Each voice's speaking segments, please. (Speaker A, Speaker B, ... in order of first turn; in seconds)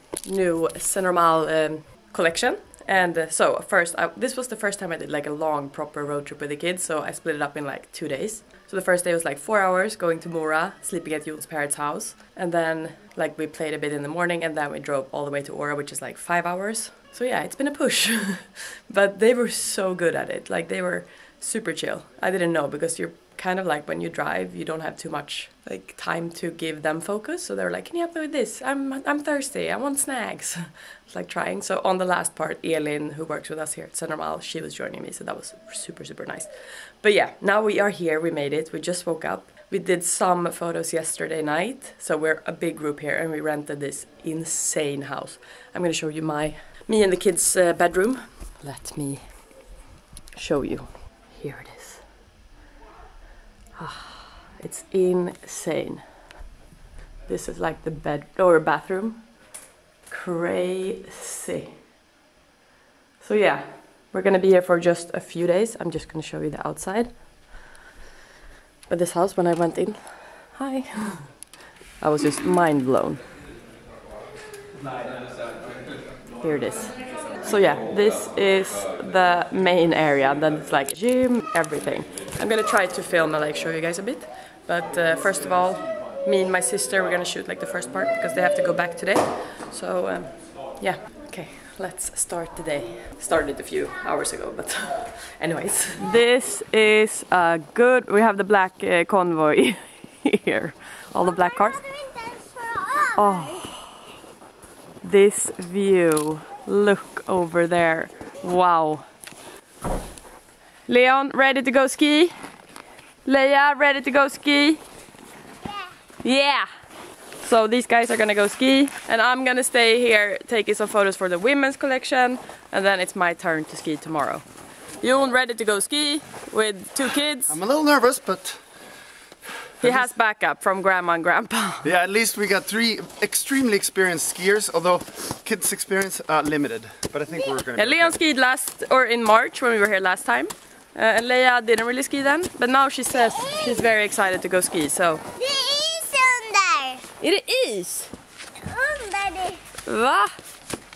Speaker A: 0.2-49.5, 50.3-52.1, 53.8-56.2, 57.2-59.3, 60.1-61.8, 63.2-67.2, 68.9-73.2, 76.4-101.9, 103.0-104.1, 105.0-109.0, 110.8-112.3, 113.2-114.8, 116.2-116.7, 117.4-124.4, 125.0-127.6, 129.8-131.9, 137.7-145.2, 147.1-148.1, 149.8-150.4
Speaker B: 127.5-128.6, 129.8-130.1, 131.8-138.1
Speaker C: 145.4-147.0, 148.9-149.5